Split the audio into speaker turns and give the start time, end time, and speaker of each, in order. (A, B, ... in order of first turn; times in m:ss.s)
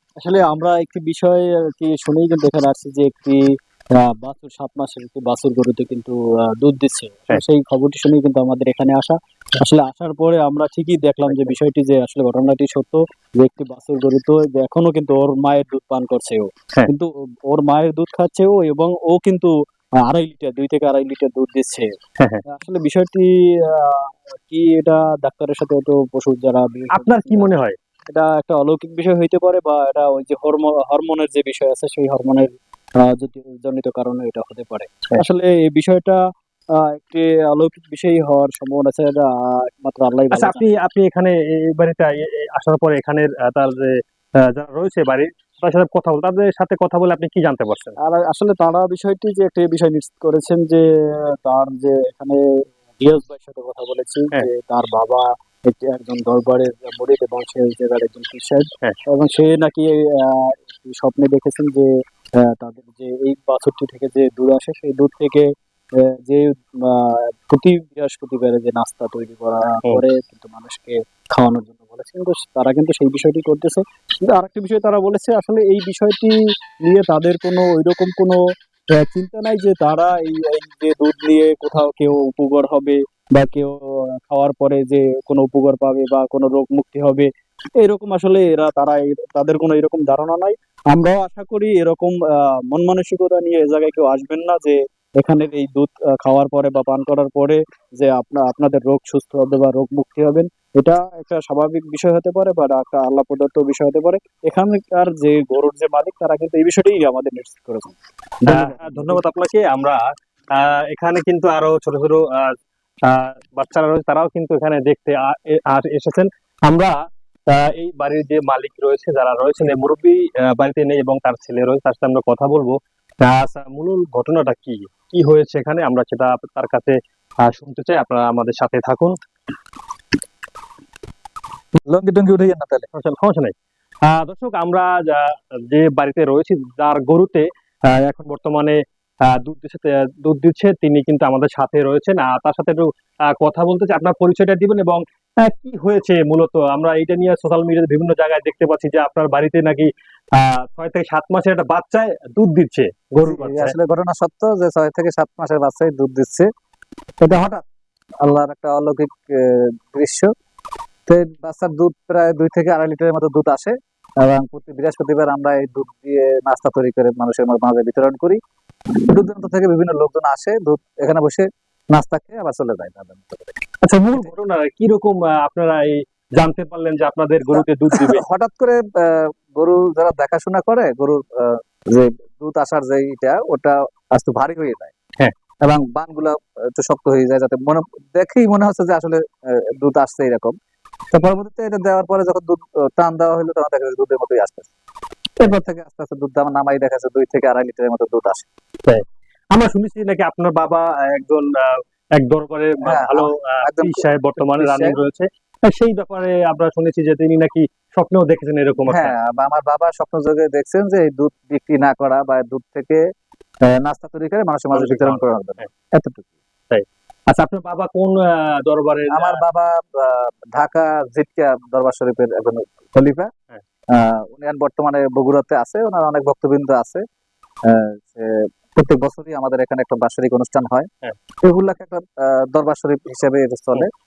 0:00.2-0:21.9 A
0:22.5-0:27.5 A
0:26.9-0:27.8 B
0:28.1-0:36.2 A
0:36.7-0:40.7 A
0:40.3-0:48.0 B
0:48.0-1:18.4 A
1:18.9-1:49.2 A
1:48.5-1:52.6 B
1:53.1-2:09.2 B
2:11.8-2:12.9 C
2:12.9-2:33.8 B
2:33.2-2:36.5 C
2:37.2-2:37.6 C
2:38.2-2:40.3 C
2:41.1-2:48.4 C
2:49.0-2:53.5 C
2:53.8-2:58.2 B
2:57.9-3:04.9 C
3:05.6-3:10.6 C
3:11.1-3:14.7 C
3:15.4-3:18.5 C
3:18.8-3:29.1 B
3:22.8-3:25.0 C
3:28.9-3:33.0 C
3:33.6-3:36.3 C
3:34.7-3:35.7 B
3:36.7-3:39.4 B
3:39.1-3:43.3 C
3:43.9-3:47.0 C
3:47.6-3:50.9 C
3:51.4-3:53.9 C